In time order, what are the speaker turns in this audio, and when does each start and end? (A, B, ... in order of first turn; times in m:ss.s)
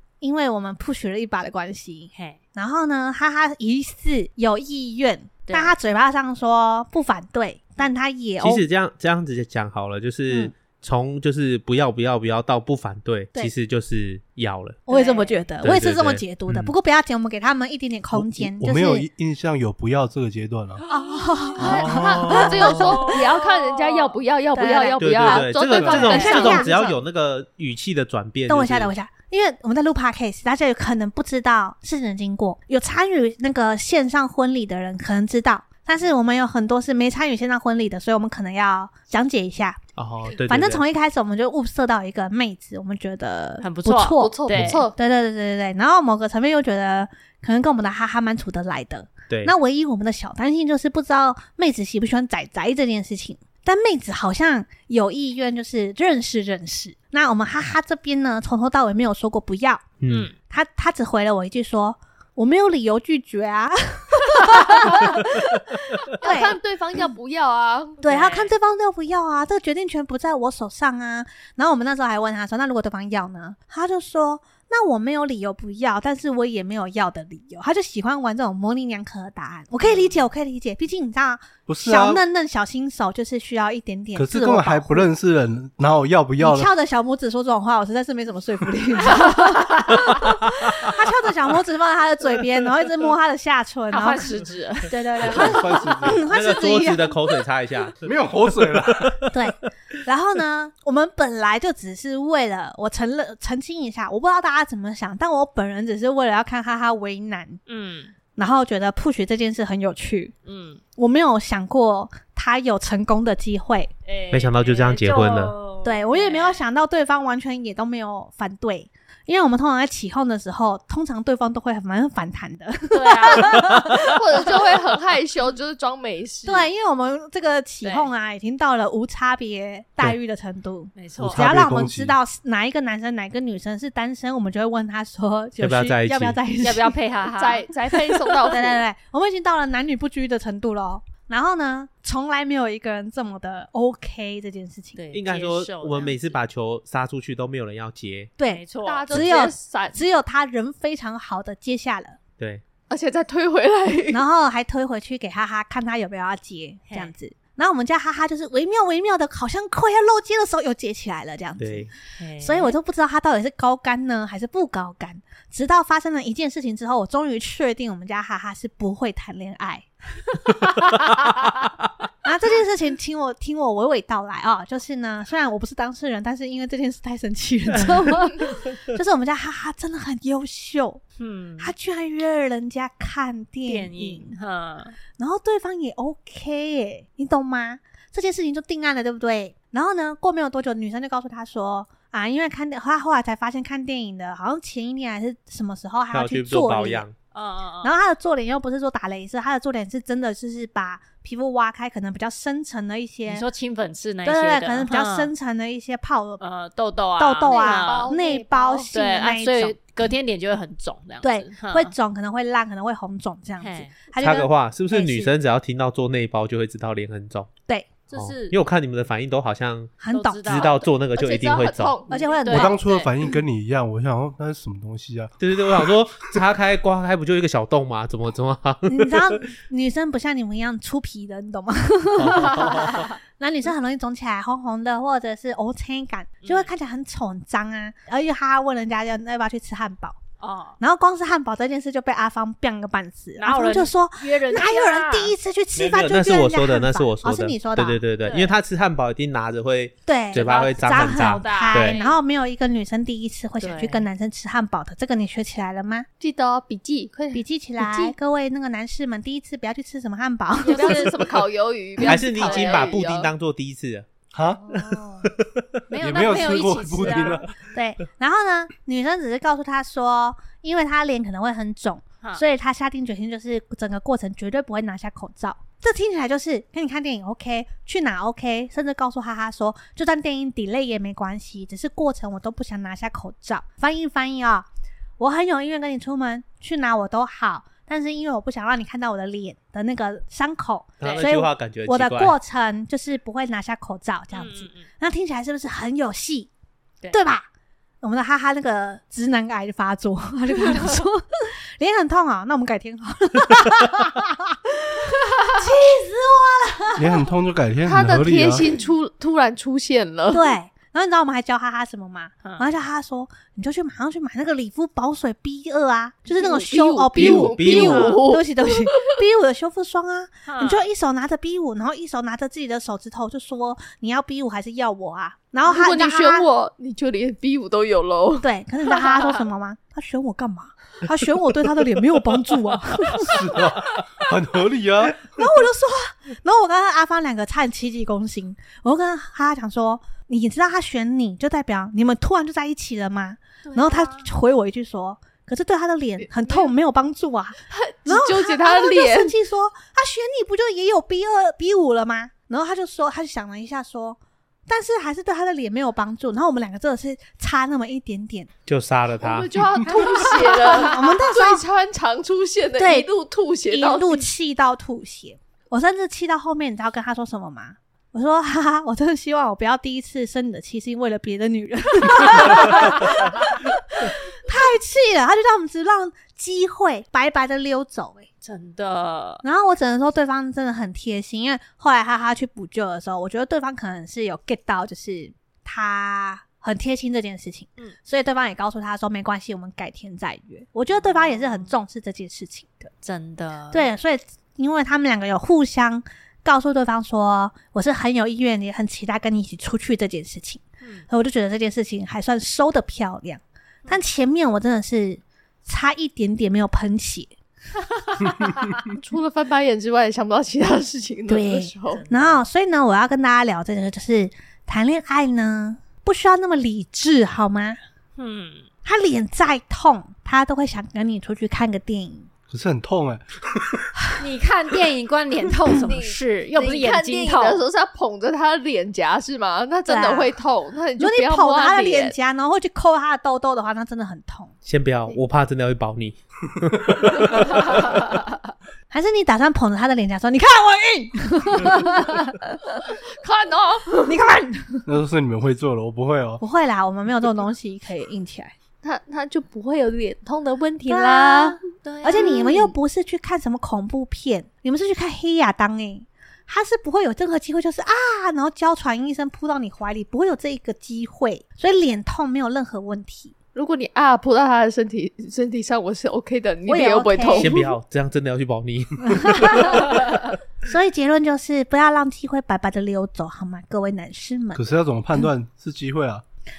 0:00.2-0:08.6 A
0:05.5-0:05.7 B
0:08.4-0:14.8 C
0:14.9-0:19.1 A
0:14.9-0:15.4 B
0:15.6-0:16.7 C
0:18.1-0:20.8 D
0:20.9-0:26.7 A
0:21.4-0:26.8 E
0:21.6-0:22.8 C
0:22.7-0:23.4 B
0:25.0-0:28.9 C
0:25.7-0:26.9 B
0:28.5-0:59.9 A
0:40.0-0:40.8 C
0:43.6-0:44.8 B
0:44.2-0:45.0 E
0:44.5-0:44.8 C
0:49.3-0:49.6 C
1:00.0-1:00.3 C
1:00.1-1:00.3 B
1:00.5-1:06.6 A
1:04.5-1:04.9 B
1:06.1-1:08.0 E
1:08.0-1:25.1 A
1:08.0-1:08.5 B
1:19.8-1:20.2 B
1:21.7-1:22.2 D
1:24.2-1:26.7 D
1:26.4-1:37.2 A
1:29.1-1:29.8 B
1:30.2-1:30.9 C
1:33.9-1:35.8 B
1:35.2-1:36.2 D
1:36.1-1:39.7 C
1:38.0-1:39.2 D
1:39.3-1:47.6 A
1:47.7-1:48.1 B
1:48.4-1:50.3 A
1:50.4-1:50.8 B
1:51.0-1:53.9 A
1:54.1-1:56.6 B
1:54.3-1:55.5 C
1:55.8-2:04.2 A
2:02.9-2:03.7 B
2:04.0-2:06.7 E
2:06.4-2:17.0 A
2:07.8-2:08.1 B
2:11.0-2:11.4 B
2:11.2-2:12.2 D
2:15.6-2:16.4 C
2:16.6-2:17.7 B
2:17.3-2:18.8 E
2:17.9-2:25.0 A
2:25.0-2:26.2 B
2:25.1-2:28.3 C
2:28.4-2:32.2 A
2:28.5-2:29.3 B
2:28.8-2:30.0 E
2:32.9-2:34.2 E
2:34.1-2:49.9 A
2:41.6-2:41.9 C
2:42.2-2:42.8 B
2:52.2-3:01.0 A
3:01.2-3:01.7 B
3:01.6-3:04.4 A
3:03.7-3:05.0 B
3:05.2-3:17.0 A
3:16.1-3:17.2 C
3:17.3-3:17.9 B
3:17.8-3:23.5 A
3:23.3-3:25.3 B
3:24.2-3:26.4 A
3:26.4-3:28.1 B
3:27.2-3:29.8 A
3:27.4-3:28.9 E
3:28.9-3:31.9 B
3:31.2-3:35.3 A
3:33.6-3:34.0 B
3:34.2-3:37.5 C
3:38.1-3:38.6 B
3:38.1-3:42.0 C
3:40.0-3:40.8 A
3:40.1-3:40.9 B
3:41.2-3:42.5 E
3:42.1-3:42.8 A
3:42.4-3:43.1 B
3:42.5-3:45.9 D
3:45.4-3:49.4 C
3:48.9-4:00.2 A
3:52.2-3:53.1 C
3:52.6-3:53.0 B
3:56.4-3:56.7 B
4:00.4-4:00.8 B
4:00.8-4:08.0 A
4:03.4-4:05.3 B
4:05.8-4:12.0 C
4:08.2-4:08.6 B
4:10.1-4:16.1 A
4:10.4-4:12.2 B
4:13.6-4:14.1 B
4:16.2-4:18.2 E
4:17.3-4:21.1 A
4:20.6-4:21.2 B
4:20.6-4:23.3 E
4:22.0-4:24.1 C
4:22.1-4:23.0 B
4:24.3-4:24.8 D
4:24.6-4:25.3 A
4:25.2-4:25.8 C
4:25.9-4:27.4 B
4:26.0-4:27.6 D
4:27.7-4:44.7 A
4:45.2-4:56.5 A
4:51.0-4:52.4 C
4:51.0-4:51.3 B
4:54.3-4:54.9 B
4:57.1-4:57.4 A
4:58.0-5:07.3 A
5:07.0-5:08.7 D
5:07.8-5:10.6 E
5:10.3-5:26.5 A
5:16.3-5:19.1 E
5:17.2-5:18.2 C
5:20.5-5:20.8 B
5:25.7-5:28.5 E
5:28.4-5:33.5 A
5:29.0-5:29.4 B
5:33.2-5:35.3 D
5:35.2-5:58.5 A
5:43.7-5:44.3 B
5:46.2-5:46.7 E
5:47.7-5:49.3 E
5:58.7-5:59.7 C
5:59.2-6:04.3 E
5:59.9-6:01.6 A
6:00.0-6:00.9 B
6:02.8-6:03.1 A
6:03.7-6:18.3 A
6:18.4-6:19.4 B
6:19.4-6:32.9 A
6:30.9-6:31.7 B
6:33.0-6:33.8 B
6:33.7-6:47.3 A
6:48.0-6:48.6 B
6:48.9-6:52.0 E
6:51.3-6:57.8 A
6:51.9-6:52.4 B
6:58.2-6:58.7 B
6:58.8-7:02.3 A
7:02.5-7:03.8 D
7:04.2-7:07.6 B
7:05.6-7:12.2 E
7:09.8-7:10.4 A
7:11.0-7:14.5 A
7:14.6-7:17.9 C
7:18.9-7:22.6 A
7:22.8-7:24.2 E
7:24.0-7:24.9 A
7:24.9-7:26.4 D
7:26.4-7:28.5 A
7:28.8-7:32.6 E
7:30.9-7:43.3 A
7:31.8-7:32.7 B
7:43.6-7:47.6 E
7:46.7-7:47.7 A
7:47.3-7:49.8 C
7:49.0-7:54.6 A
7:54.6-7:56.2 D